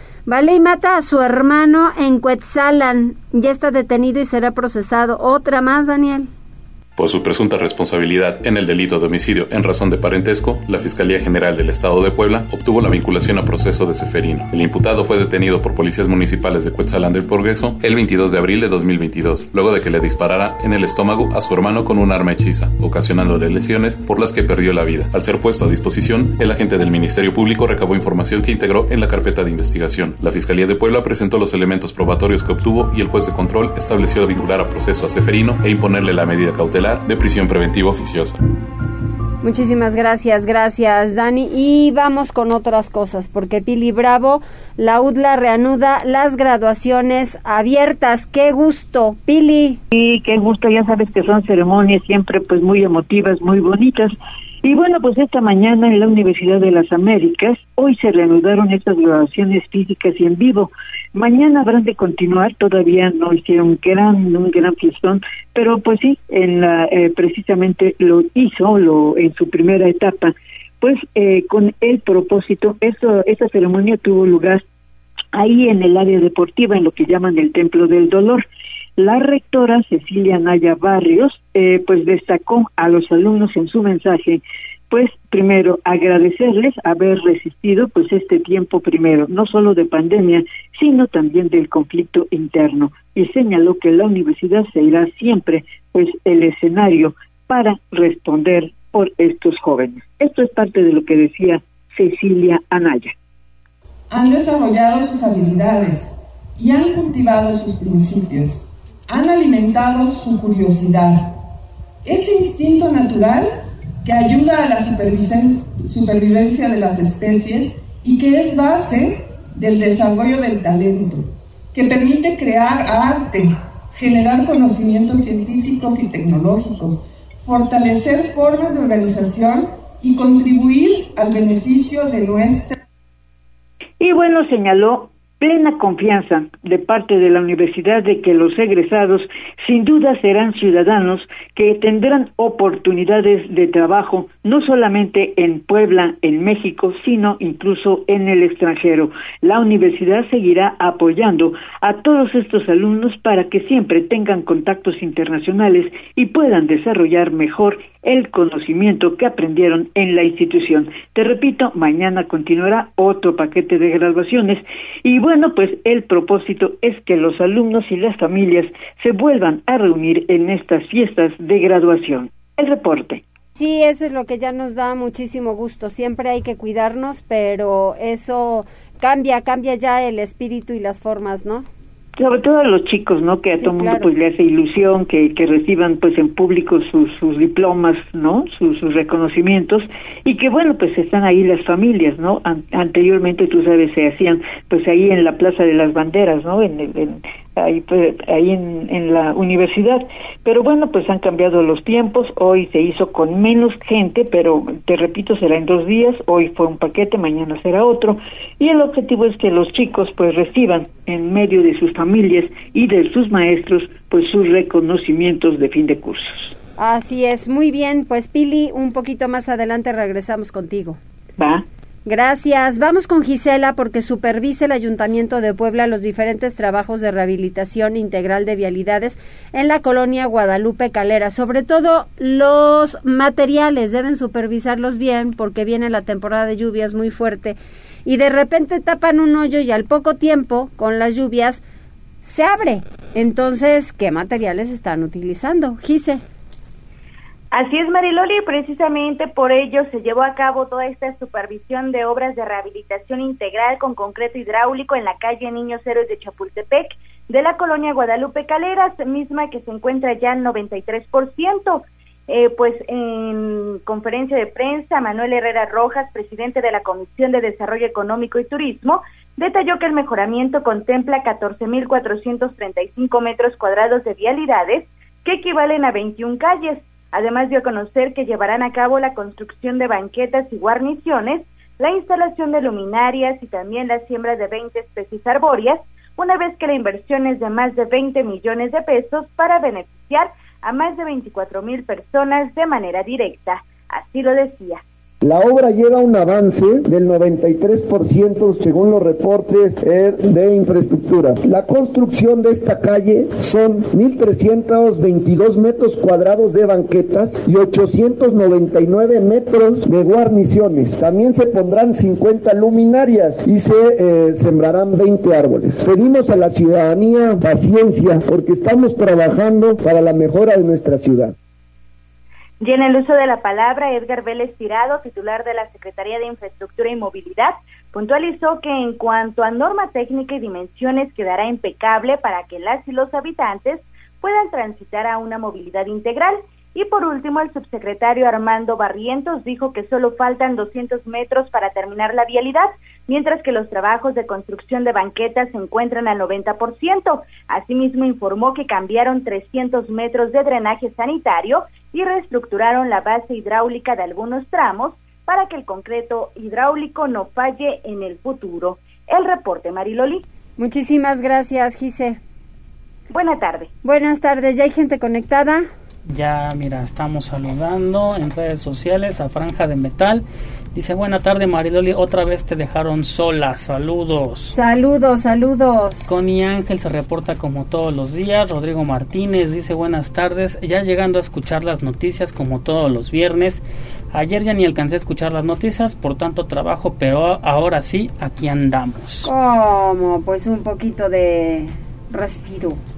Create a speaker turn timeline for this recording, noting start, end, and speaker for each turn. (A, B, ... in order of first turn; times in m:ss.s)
0:00.3-0:06.3 A
0:07.0-0:38.4 B
0:39.4-0:49.8 A
0:49.9-1:14.6 C
1:15.3-1:18.4 C
1:19.0-1:43.1 C
1:44.1-1:51.3 D
1:52.0-1:53.5 D
1:54.0-2:12.8 D
2:14.0-2:53.2 C
2:53.6-3:01.7 A
3:02.2-3:36.6 C
3:03.6-3:04.1 A
3:36.8-3:41.0 A
3:41.4-3:41.6 C
3:42.0-4:01.6 A
4:02.2-4:06.2 A
4:07.5-4:54.8 E
4:55.2-5:21.3 F
5:22.6-6:00.2 E
6:00.6-6:02.2 A
6:03.1-6:03.7 E
6:03.8-6:05.7 A
6:06.1-6:14.6 G
6:14.5-6:16.2 A
6:16.1-6:29.3 G
6:29.2-6:32.8 A